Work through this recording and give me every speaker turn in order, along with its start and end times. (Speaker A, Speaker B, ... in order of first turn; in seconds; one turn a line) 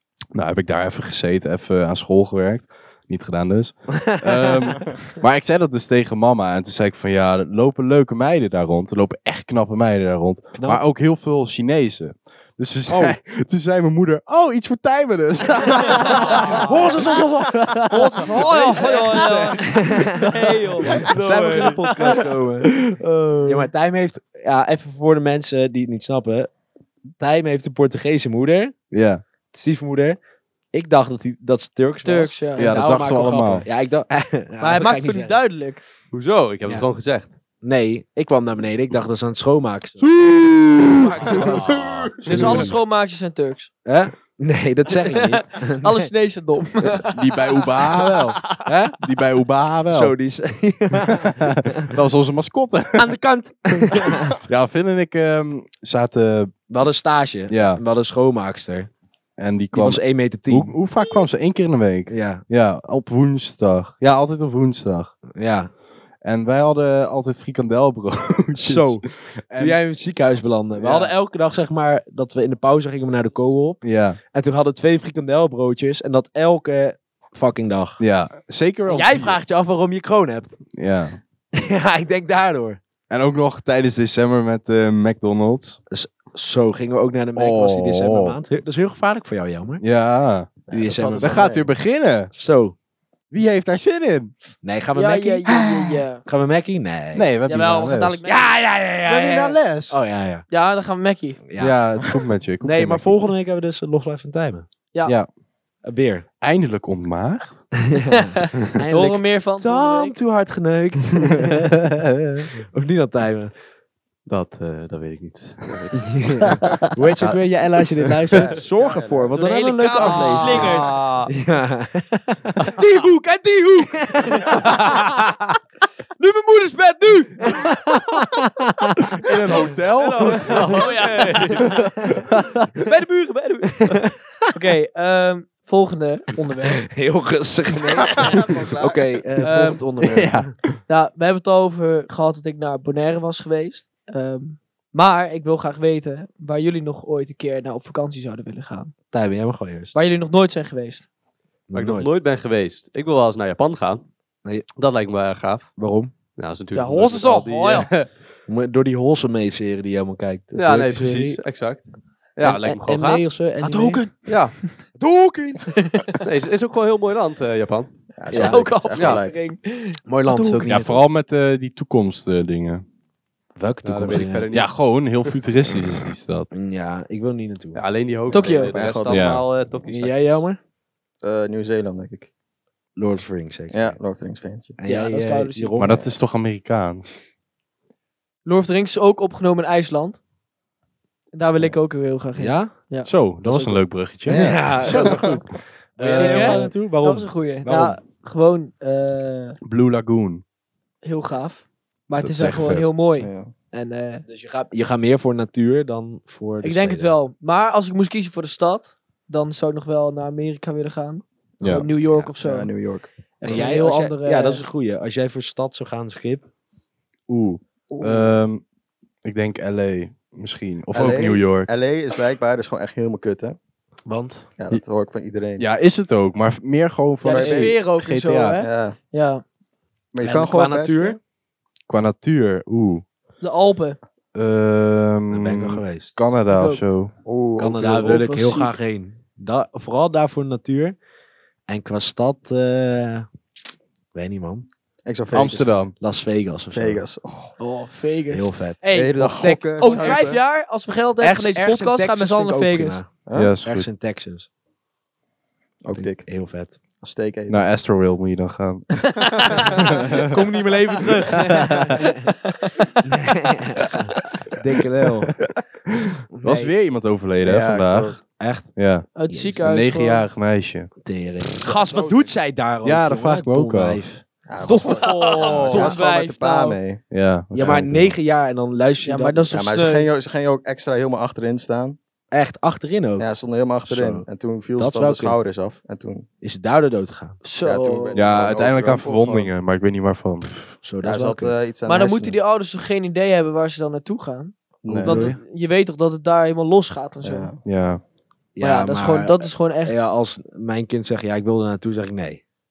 Speaker A: 0.3-21.7
Speaker B: 4.1-4.5
Speaker B: 10.6-10.8
Speaker B: 12.9-13.2
Speaker C: 15.9-16.5
Speaker B: 16.4-20.3
Speaker C: 17.9-22.3
Speaker B: 20.9-22.7
Speaker B: 23.4-26.5
Speaker B: 27.2-28.8
Speaker A: 28.9-29.2
Speaker B: 29.5-30.2
Speaker B: 30.7-35.4
Speaker C: 32.0-32.8
Speaker A: 32.6-33.7
Speaker C: 34.6-35.8
Speaker D: 36.1-37.3
Speaker B: 37.6-40.0
Speaker A: 40.1-41.5
Speaker B: 41.0-42.8
Speaker D: 41.0-42.1
Speaker E: 41.3-42.6
Speaker C: 42.2-43.7
Speaker A: 42.4-42.7
Speaker B: 43.9-46.1
Speaker C: 44.9-48.6
Speaker A: 47.1-48.5
Speaker B: 48.6-49.0
Speaker A: 49.0-50.1
Speaker B: 49.9-51.7
Speaker A: 51.0-53.2
Speaker B: 53.0-54.4
Speaker A: 53.8-56.5
Speaker B: 56.7-58.9
Speaker A: 57.5-57.8
Speaker A: 59.4-65.2
Speaker B: 59.7-60.8
Speaker B: 62.1-62.4
Speaker B: 65.4-65.7
Speaker A: 66.2-69.8
Speaker B: 68.6-78.0
Speaker A: 70.8-71.1
Speaker A: 73.8-74.2
Speaker A: 78.0-79.4
Speaker B: 78.9-80.6
Speaker A: 80.8-81.2
Speaker B: 81.5-82.8
Speaker A: 83.1-85.8
Speaker B: 85.9-89.8
Speaker A: 87.4-88.4
Speaker A: 89.8-90.6
Speaker E: 90.7-91.7
Speaker B: 90.7-91.5
Speaker A: 91.2-92.3
Speaker B: 92.3-92.8
Speaker A: 93.3-94.3
Speaker B: 94.6-95.6
Speaker C: 94.9-96.2
Speaker A: 95.5-95.8
Speaker B: 96.2-97.3
Speaker A: 97.2-98.2
Speaker C: 97.5-98.6
Speaker B: 98.2-100.5
Speaker A: 99.0-100.0
Speaker C: 100.5-101.4
Speaker B: 101.5-102.0
Speaker A: 101.6-103.2
Speaker B: 102.6-104.7
Speaker C: 104.9-105.2
Speaker B: 105.8-106.2
Speaker A: 106.4-107.7
Speaker B: 108.0-113.5
Speaker C: 108.2-110.2
Speaker D: 114.3-116.6
Speaker B: 116.0-124.9
Speaker E: 118.3-119.3
Speaker C: 119.3-120.9
Speaker D: 120.0-121.3
Speaker D: 124.7-125.2
Speaker C: 126.2-128.0
Speaker B: 127.5-129.1
Speaker A: 129.2-130.9
Speaker C: 129.5-131.9
Speaker D: 130.4-131.8
Speaker C: 132.8-136.9
Speaker B: 136.9-140.5
Speaker E: 138.1-139.3
Speaker C: 139.4-140.0
Speaker A: 140.0-140.8
Speaker C: 140.9-148.9
Speaker B: 149.1-149.9
Speaker C: 149.9-151.1
Speaker B: 151.7-152.1
Speaker D: 151.7-154.0
Speaker D: 154.8-155.7
Speaker B: 155.8-156.1
Speaker D: 156.4-158.1
Speaker C: 156.7-157.9
Speaker B: 158.5-161.4
Speaker D: 160.6-163.3
Speaker B: 162.4-164.1
Speaker C: 163.6-164.1
Speaker D: 164.2-164.6
Speaker B: 165.0-165.6
Speaker C: 165.7-166.2
Speaker D: 166.2-167.9
Speaker E: 168.2-169.4
Speaker B: 168.3-168.7
Speaker C: 168.3-170.7
Speaker B: 170.1-171.0
Speaker A: 170.7-172.8
Speaker B: 173.6-174.5
Speaker D: 173.8-175.3
Speaker A: 174.5-176.5
Speaker B: 176.5-177.8
Speaker D: 177.8-180.2
Speaker C: 178.3-178.8
Speaker E: 178.3-179.2
Speaker A: 179.1-179.4
Speaker B: 179.8-180.6
Speaker E: 181.2-182.3
Speaker B: 183.0-184.0
Speaker E: 183.7-184.8
Speaker B: 184.8-185.9
Speaker C: 184.9-185.8
Speaker A: 185.8-187.1
Speaker E: 185.8-186.1
Speaker C: 188.4-190.2
Speaker C: 191.3-193.7
Speaker B: 192.4-192.7
Speaker A: 193.0-196.7
Speaker B: 194.3-198.0
Speaker E: 194.3-195.4
Speaker C: 196.0-199.6
Speaker A: 199.6-200.4
Speaker C: 201.0-204.2
Speaker A: 202.2-202.9
Speaker E: 203.2-203.5
Speaker B: 204.3-207.2
Speaker C: 206.6-212.7
Speaker A: 211.6-211.9
Speaker E: 211.7-213.6
Speaker C: 213.4-214.7
Speaker B: 213.4-216.4
Speaker A: 217.3-218.6
Speaker E: 217.9-218.4
Speaker A: 219.2-221.7
Speaker E: 220.9-223.6
Speaker B: 224.1-224.5
Speaker E: 224.6-225.7
Speaker A: 225.6-228.6
Speaker C: 227.2-229.4
Speaker E: 227.3-227.8
Speaker E: 228.6-229.0
Speaker E: 230.1-231.2
Speaker B: 230.2-231.2
Speaker A: 231.9-233.1
Speaker C: 233.4-234.0
Speaker A: 234.3-237.1
Speaker B: 235.3-236.2
Speaker C: 236.5-236.8
Speaker E: 237.2-238.2
Speaker B: 237.6-241.0
Speaker C: 238.0-238.7
Speaker B: 241.7-243.3
Speaker B: 244.1-244.7
Speaker E: 245.1-245.7
Speaker A: 245.3-245.9
Speaker B: 246.0-247.0
Speaker E: 246.7-247.6
Speaker C: 247.6-253.0
Speaker B: 248.3-248.8
Speaker E: 248.9-250.4
Speaker B: 249.8-250.4
Speaker B: 251.2-253.1
Speaker E: 253.3-253.5
Speaker A: 253.3-253.9
Speaker B: 253.6-254.5
Speaker E: 255.8-256.3
Speaker B: 256.0-256.8
Speaker E: 257.0-257.6
Speaker A: 257.5-260.4
Speaker C: 259.3-263.1
Speaker E: 259.3-260.0
Speaker B: 260.3-262.3
Speaker A: 261.5-261.9
Speaker B: 263.0-265.3
Speaker A: 266.1-270.9
Speaker B: 266.3-266.7
Speaker E: 267.4-268.2
Speaker B: 268.4-268.7
Speaker C: 269.1-270.3
Speaker B: 269.3-269.6
Speaker B: 271.0-275.9
Speaker E: 271.6-272.3
Speaker A: 272.8-274.1
Speaker E: 274.5-277.0
Speaker C: 274.7-276.8
Speaker A: 277.1-278.2
Speaker B: 277.5-279.5
Speaker C: 279.0-280.1
Speaker E: 279.5-282.0
Speaker B: 282.3-283.3
Speaker E: 283.2-286.2
Speaker B: 283.9-285.4
Speaker B: 286.4-287.4
Speaker C: 287.4-288.3
Speaker E: 287.6-289.5
Speaker A: 288.1-290.5
Speaker B: 290.8-291.6
Speaker E: 291.0-292.4
Speaker C: 291.9-297.5
Speaker E: 294.8-295.4
Speaker B: 294.9-295.4
Speaker E: 297.2-297.6
Speaker A: 297.6-298.0
Speaker B: 298.6-302.4
Speaker C: 298.6-300.0